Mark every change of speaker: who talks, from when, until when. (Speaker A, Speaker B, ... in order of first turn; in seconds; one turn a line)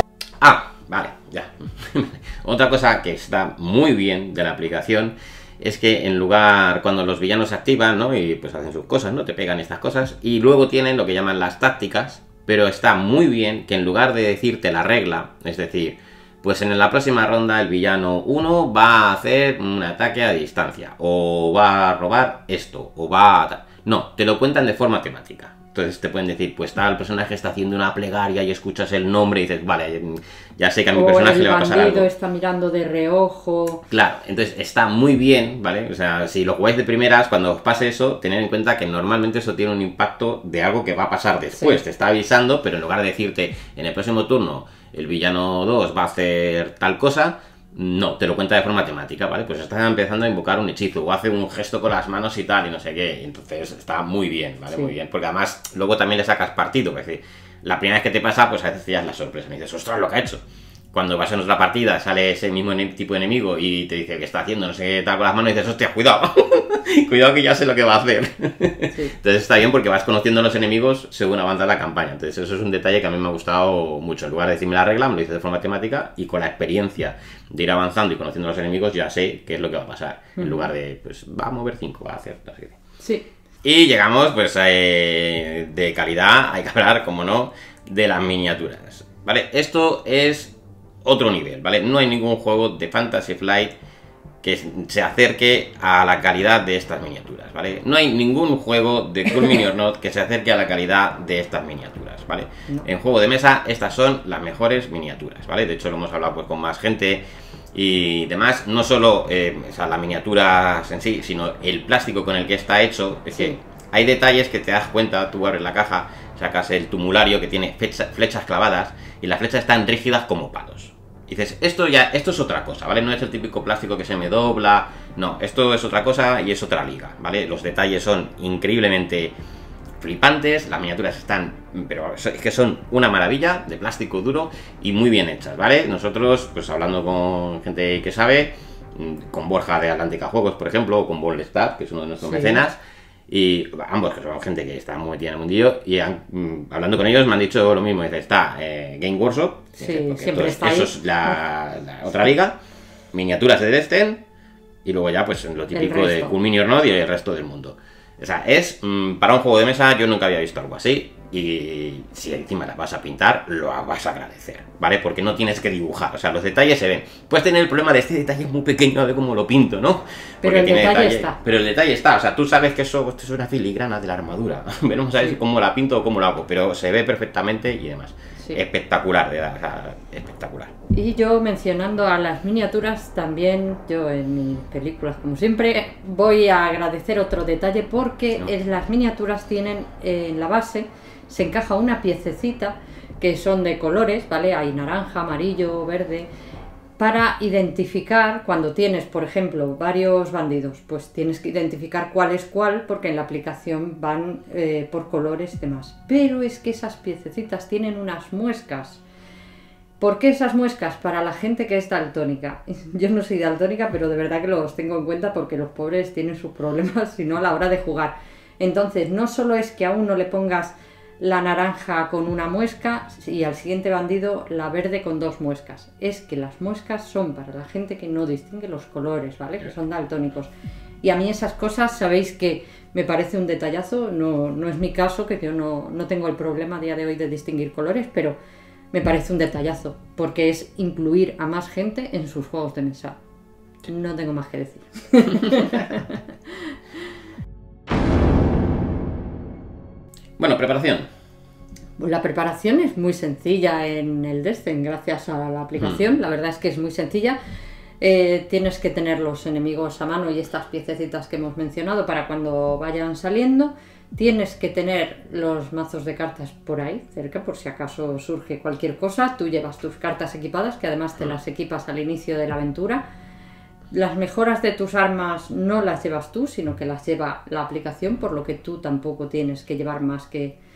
Speaker A: 0.4-32.1
Speaker B: 30.9-33.8
Speaker A: 33.9-60.4
Speaker A: 60.9-82.8
Speaker B: 80.4-80.7
Speaker B: 83.0-83.3
Speaker A: 83.6-90.5
Speaker A: 91.0-93.8
Speaker A: 94.4-129.3
Speaker B: 113.3-113.6
Speaker A: 130.0-142.8
Speaker B: 142.2-142.6
Speaker A: 143.3-152.6
Speaker B: 149.8-151.4
Speaker A: 153.1-154.2
Speaker A: 154.8-180.7
Speaker B: 155.7-156.3
Speaker B: 170.4-171.4
Speaker B: 180.9-196.3
Speaker B: 197.0-209.0
Speaker B: 210.0-230.5
Speaker B: 231.0-238.4
Speaker B: 238.9-243.2
Speaker B: 243.9-246.8
Speaker A: 245.4-245.9
Speaker A: 250.4-251.1
Speaker B: 252.0-257.4
Speaker B: 258.0-273.0
Speaker B: 273.9-280.6